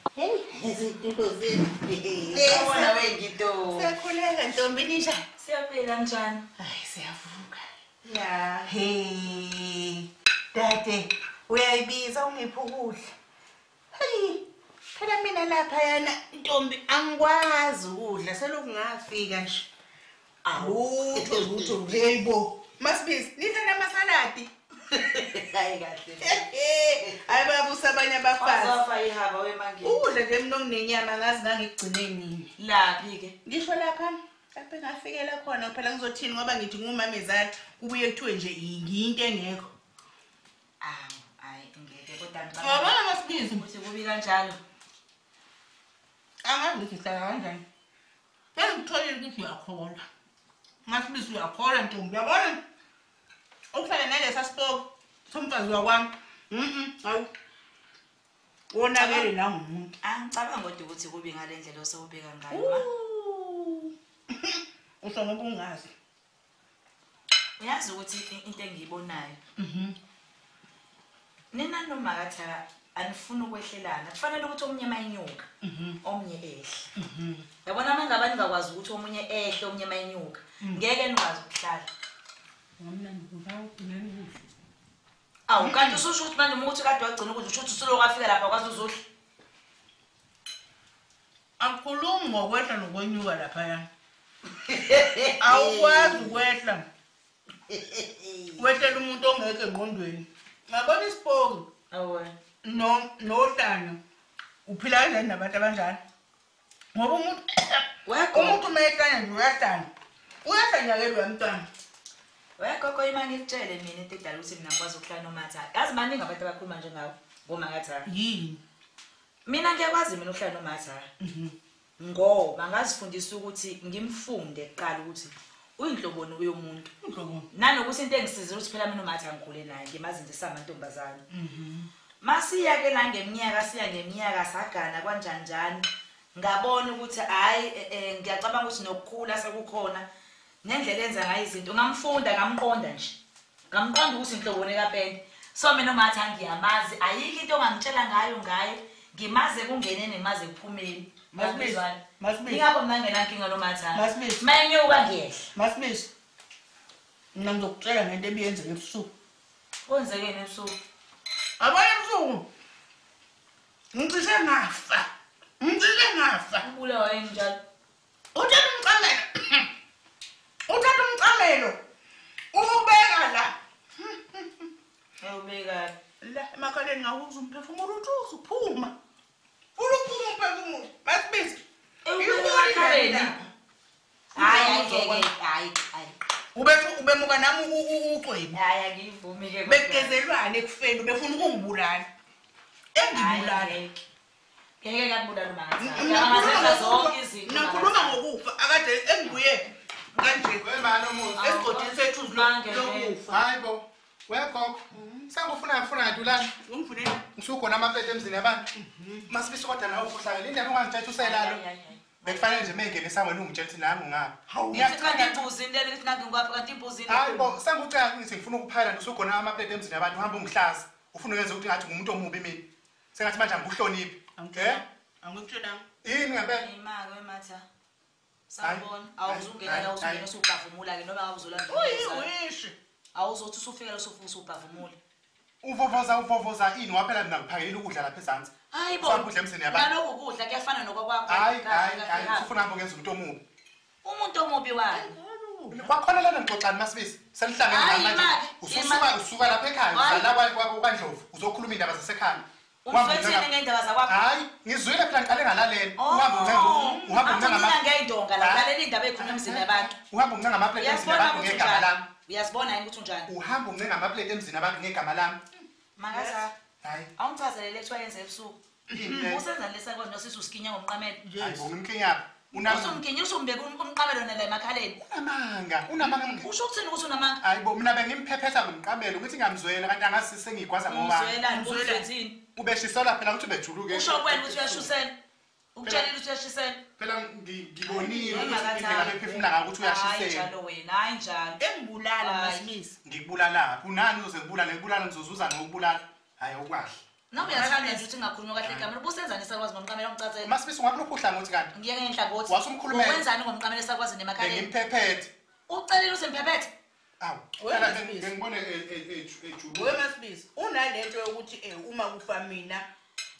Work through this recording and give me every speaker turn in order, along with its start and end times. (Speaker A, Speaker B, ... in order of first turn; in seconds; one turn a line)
Speaker A: 0.2-0.5
Speaker B: 2.3-3.9
Speaker A: 2.3-3.0
Speaker A: 3.7-5.2
Speaker B: 5.4-6.5
Speaker A: 6.6-7.6
Speaker B: 8.1-8.7
Speaker A: 8.6-13.0
Speaker A: 13.9-14.4
Speaker A: 15.0-19.7
Speaker B: 20.4-21.8
Speaker A: 20.6-24.5
Speaker B: 24.9-26.5
Speaker A: 26.2-28.8
Speaker B: 28.4-30.1
Speaker A: 29.8-32.5
Speaker B: 32.6-33.4
Speaker A: 33.5-39.7
Speaker B: 40.8-43.0
Speaker A: 42.6-43.6
Speaker B: 43.5-44.6
Speaker A: 46.4-47.6
Speaker A: 48.5-50.1
Speaker A: 50.9-52.6
Speaker A: 53.7-57.3
Speaker A: 58.7-59.9
Speaker B: 59.0-59.3
Speaker B: 60.0-62.9
Speaker A: 62.5-65.9
Speaker B: 67.6-69.4
Speaker A: 69.6-70.0
Speaker B: 71.5-75.5
Speaker A: 75.6-76.0
Speaker B: 76.0-76.9
Speaker A: 77.0-77.5
Speaker B: 77.6-81.9
Speaker A: 82.8-84.3
Speaker B: 85.5-89.0
Speaker A: 85.6-86.0
Speaker A: 91.6-93.9
Speaker B: 94.6-96.5
Speaker A: 95.4-96.9
Speaker B: 97.7-98.7
Speaker A: 98.6-101.7
Speaker B: 101.9-102.3
Speaker A: 102.6-104.0
Speaker A: 104.7-106.0
Speaker A: 106.9-109.9
Speaker B: 108.0-108.7
Speaker A: 110.4-111.7
Speaker B: 112.6-118.1
Speaker A: 118.1-118.6
Speaker B: 119.5-121.1
Speaker A: 121.2-121.5
Speaker B: 122.0-126.9
Speaker A: 127.0-127.5
Speaker B: 127.5-131.2
Speaker A: 131.3-131.9
Speaker B: 132.2-140.1
Speaker B: 140.6-143.2
Speaker B: 143.7-155.5
Speaker A: 151.3-152.7
Speaker A: 153.9-154.4
Speaker A: 155.5-156.1
Speaker A: 157.3-159.1
Speaker B: 159.9-160.8
Speaker A: 161.6-162.5
Speaker A: 163.9-165.1
Speaker A: 165.6-166.7
Speaker B: 166.6-167.6
Speaker A: 168.3-169.7
Speaker A: 170.7-171.8
Speaker A: 172.5-174.7
Speaker B: 175.2-175.9
Speaker A: 176.2-178.9
Speaker A: 179.8-181.6
Speaker B: 182.1-183.3
Speaker A: 182.2-183.5
Speaker A: 184.3-185.3
Speaker B: 184.4-186.2
Speaker A: 186.6-188.6
Speaker B: 188.5-190.2
Speaker A: 189.7-192.1
Speaker A: 192.9-193.8
Speaker B: 193.1-194.0
Speaker B: 194.8-198.2
Speaker A: 195.8-200.8
Speaker C: 196.2-196.8
Speaker C: 200.6-201.5
Speaker B: 201.4-203.2
Speaker A: 201.4-203.4
Speaker C: 203.3-206.6
Speaker A: 204.9-205.3
Speaker A: 206.6-207.2
Speaker C: 207.3-208.7
Speaker A: 208.7-209.3
Speaker C: 209.3-211.6
Speaker B: 211.2-212.7
Speaker C: 212.2-215.5
Speaker A: 214.5-215.0
Speaker B: 214.7-217.5
Speaker C: 217.1-224.8
Speaker A: 224.4-225.8
Speaker C: 226.0-226.7
Speaker B: 226.6-227.7
Speaker B: 228.5-232.3
Speaker C: 228.6-230.3
Speaker A: 231.7-232.8
Speaker B: 233.1-235.0
Speaker C: 235.6-239.9
Speaker B: 238.7-242.5
Speaker C: 241.3-243.4
Speaker B: 244.0-245.1
Speaker A: 244.9-245.9
Speaker C: 245.7-253.5
Speaker B: 247.7-249.2
Speaker B: 249.9-250.4
Speaker B: 252.8-254.2
Speaker C: 254.1-257.8
Speaker B: 256.0-259.9
Speaker A: 256.5-257.3
Speaker C: 258.4-262.0
Speaker B: 260.8-263.3
Speaker C: 263.3-265.4
Speaker B: 266.0-266.6
Speaker A: 266.1-266.5
Speaker C: 266.8-267.1
Speaker B: 267.2-271.2
Speaker A: 268.9-269.3
Speaker C: 268.9-269.4
Speaker A: 271.2-271.7
Speaker C: 271.4-273.0
Speaker B: 272.5-275.0
Speaker C: 275.0-276.5
Speaker B: 276.2-277.4
Speaker C: 277.4-281.4
Speaker B: 280.9-282.4
Speaker A: 281.5-282.1
Speaker C: 282.6-284.9
Speaker B: 283.9-285.1
Speaker B: 285.8-286.8
Speaker C: 285.8-286.1
Speaker C: 287.0-290.5
Speaker B: 287.9-291.6
Speaker A: 288.3-288.7
Speaker A: 291.6-293.0
Speaker B: 292.2-292.6
Speaker C: 293.0-297.6
Speaker B: 297.3-300.5
Speaker A: 297.4-298.1
Speaker C: 300.4-301.7
Speaker B: 301.7-304.7
Speaker C: 302.5-303.2
Speaker C: 304.4-305.3
Speaker B: 305.7-306.7
Speaker C: 307.2-310.0
Speaker A: 307.6-308.3
Speaker A: 309.7-312.9